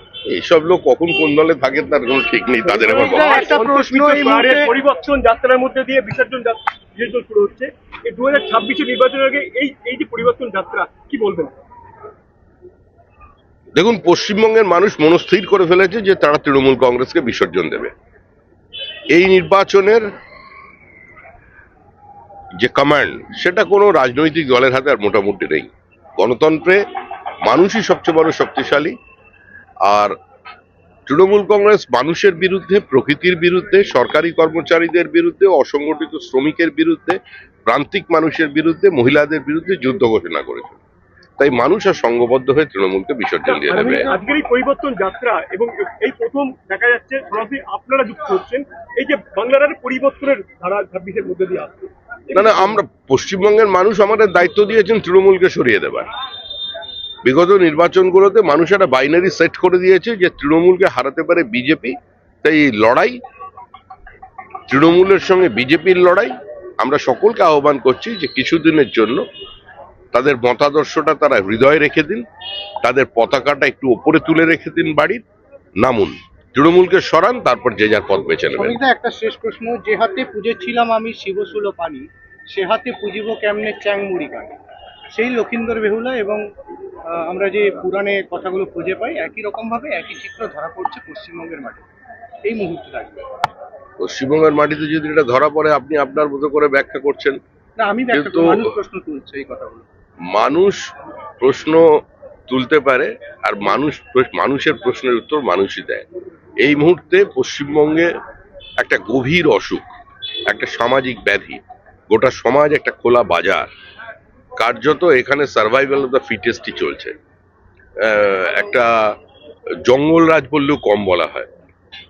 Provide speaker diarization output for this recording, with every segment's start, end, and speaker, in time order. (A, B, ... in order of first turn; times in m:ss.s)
0:00.3-0:03.5 A
0:02.8-0:04.7 B
0:02.9-0:11.5 C
0:13.8-0:17.9 A
0:19.1-0:20.1 A
0:22.6-0:26.8 A
0:27.4-0:28.9 A
0:29.9-0:30.1 A
0:31.1-0:40.8 A
0:41.4-0:44.1 A
0:43.5-0:52.7 C
0:52.3-0:56.1 A
0:57.2-1:03.2 A
1:04.7-1:09.2 A
1:10.1-1:12.2 A
1:12.8-1:15.2 A
1:15.8-1:18.8 A
1:18.5-1:24.6 B
1:25.1-1:26.4 B
1:27.2-1:31.8 B
1:32.4-1:33.2 B
1:34.0-1:37.4 A
1:37.8-1:39.8 B
1:38.1-1:38.7 A
1:40.3-1:40.9 A
1:41.4-1:41.8 A
1:42.5-1:46.0 A
1:46.6-1:48.1 A
1:48.8-1:49.9 A
1:50.5-1:53.7 A
1:54.6-1:57.1 A
1:58.0-1:59.1 A
1:59.8-2:01.5 A